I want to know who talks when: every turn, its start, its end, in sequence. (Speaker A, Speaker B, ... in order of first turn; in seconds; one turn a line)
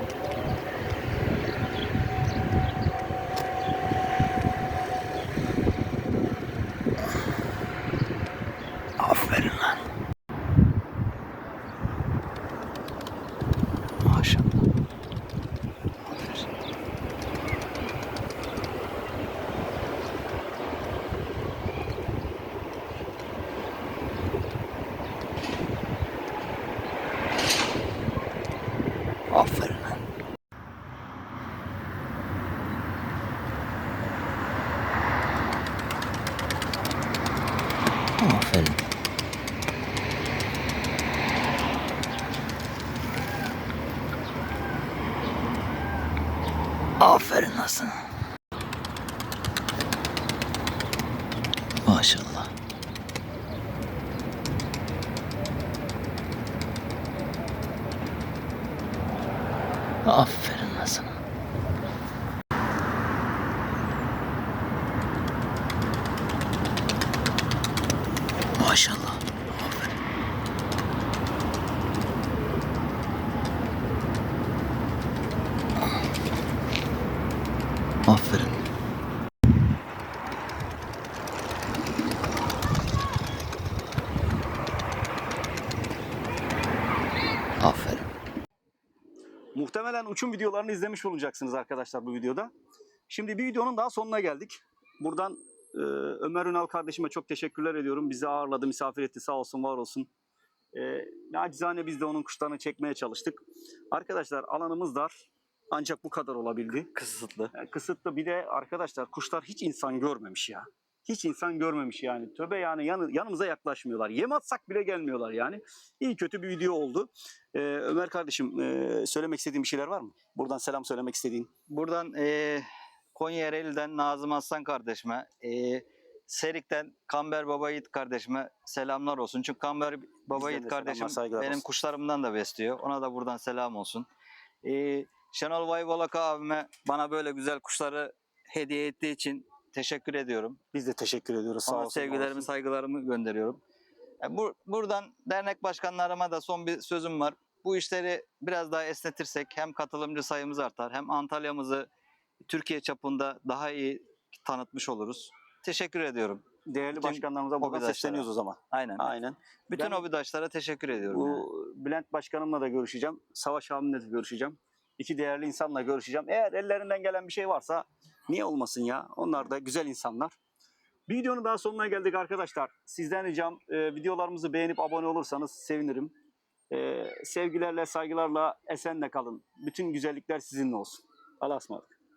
Speaker A: 9.0-9.8
Speaker B: 9.3-9.6
Speaker A: 14.0-14.5
Speaker A: 29.3-30.0
Speaker A: 38.2-38.8
Speaker A: 47.0-47.9
Speaker A: 51.9-52.5
Speaker A: 60.0-61.1
Speaker A: 68.6-69.9
Speaker A: 78.1-78.5
Speaker B: 78.1-78.5
Speaker A: 87.6-88.0
Speaker C: 89.5-92.5
Speaker C: 93.1-100.1
Speaker C: 100.7-103.4
Speaker C: 103.9-106.9
Speaker B: 106.9-107.5
Speaker C: 107.5-121.5
Speaker B: 121.7-134.1
Speaker C: 130.3-131.6
Speaker B: 134.6-140.6
Speaker C: 140.7-142.5
Speaker B: 141.7-143.6
Speaker B: 144.2-151.9
Speaker B: 152.4-159.1
Speaker C: 156.7-160.1
Speaker B: 159.7-161.5
Speaker C: 161.1-170.3
Speaker C: 171.1-176.1
Speaker C: 176.7-181.9